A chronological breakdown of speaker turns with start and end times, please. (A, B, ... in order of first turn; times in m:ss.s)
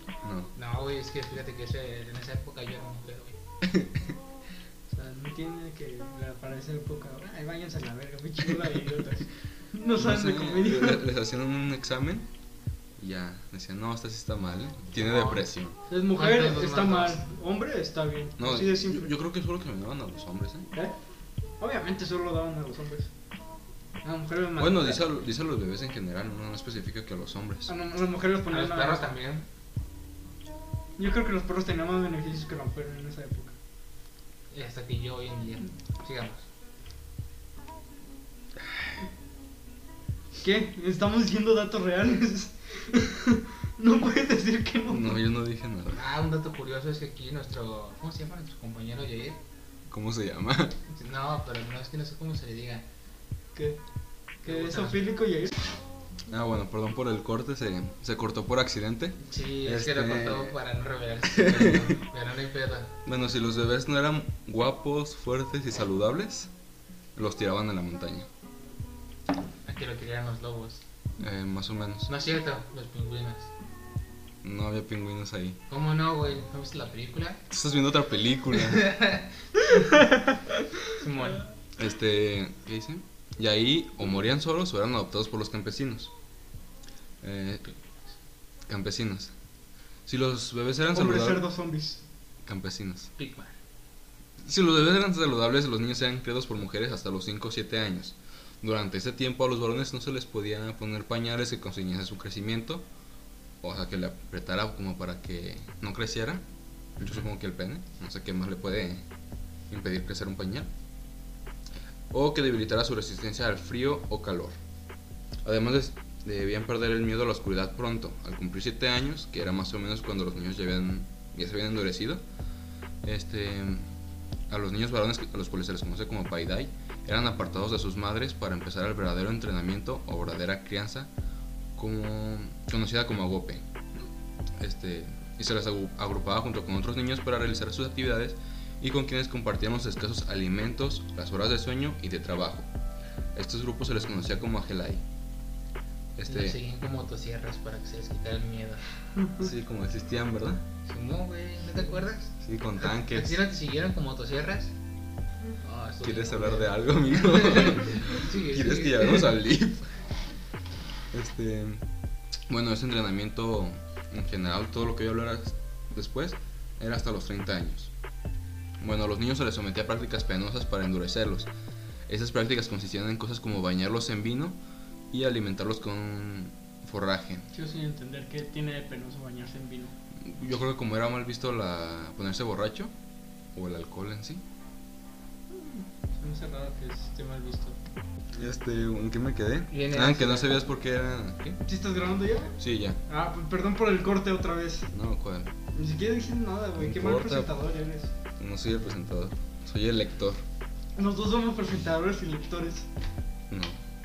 0:00.2-0:00.5 A
0:00.5-0:03.4 B
0:03.6-0:04.1 A
0:04.9-0:11.0 C
0:09.9-0:12.3 A
0:13.0-0:15.8 A
0:15.0-0:15.4 B
0:15.9-0:19.1 C
0:16.1-0:17.2 B
0:18.4-0:20.7 A
0:21.6-0:23.1 C
0:24.0-0:25.1 C
0:24.6-0:27.7 A
0:27.7-0:29.1 C
0:28.5-0:29.5 B
0:31.0-0:33.6 C
0:34.5-0:36.4 B
0:40.4-0:45.2 C
0:44.9-0:46.0 A
0:45.9-0:49.4 B
0:49.9-0:50.8 A
0:50.9-0:52.8 B
0:53.5-0:53.8 C
0:54.4-0:55.6 C
0:54.4-0:55.0 B
0:56.3-1:00.6 A
0:59.2-1:02.9 B
1:01.3-1:01.9 A
1:03.0-1:06.5 A
1:07.2-1:08.3 A
1:09.6-1:10.8 B
1:11.2-1:12.1 A
1:12.1-1:13.5 B
1:14.4-1:15.6 A
1:15.7-1:17.4 B
1:17.5-1:18.9 A
1:18.5-1:19.3 B
1:20.9-1:21.4 B
1:21.8-1:26.1 A
1:27.2-1:27.7 A
1:28.7-1:29.3 A
1:30.1-1:31.4 A
1:30.9-1:32.0 C
1:32.4-1:33.1 A
1:33.2-1:33.5 B
1:34.4-1:42.8 A
1:43.6-1:46.4 A
1:47.0-1:49.0 A
1:49.7-1:50.7 A
1:52.1-1:54.6 A
1:55.4-2:02.2 A
2:03.0-2:03.9 A
2:04.5-2:11.1 A
2:11.8-2:13.6 A
2:14.6-2:22.7 A
2:23.4-2:25.0 A
2:26.2-2:26.6 A
2:26.3-2:28.8 B
2:29.4-2:30.6 A
2:30.9-2:34.7 B
2:32.4-2:33.4 A
2:35.6-2:39.3 B
2:36.0-2:39.9 A
2:41.1-2:41.9 A
2:42.5-2:47.9 A
2:48.8-2:51.5 A
2:52.1-2:54.6 A
2:55.1-2:57.4 A
2:57.5-2:59.9 C
3:00.2-3:02.9 A
3:03.5-3:04.4 A
3:05.5-3:07.8 C
3:08.3-3:11.6 A
3:09.7-3:10.6 B
3:11.6-3:14.9 C
3:12.6-3:13.0 A
3:14.9-3:15.5 A
3:15.7-3:18.1 C
3:16.8-3:17.5 A
3:18.4-3:20.4 A
3:21.0-3:22.9 C
3:23.5-3:23.8 A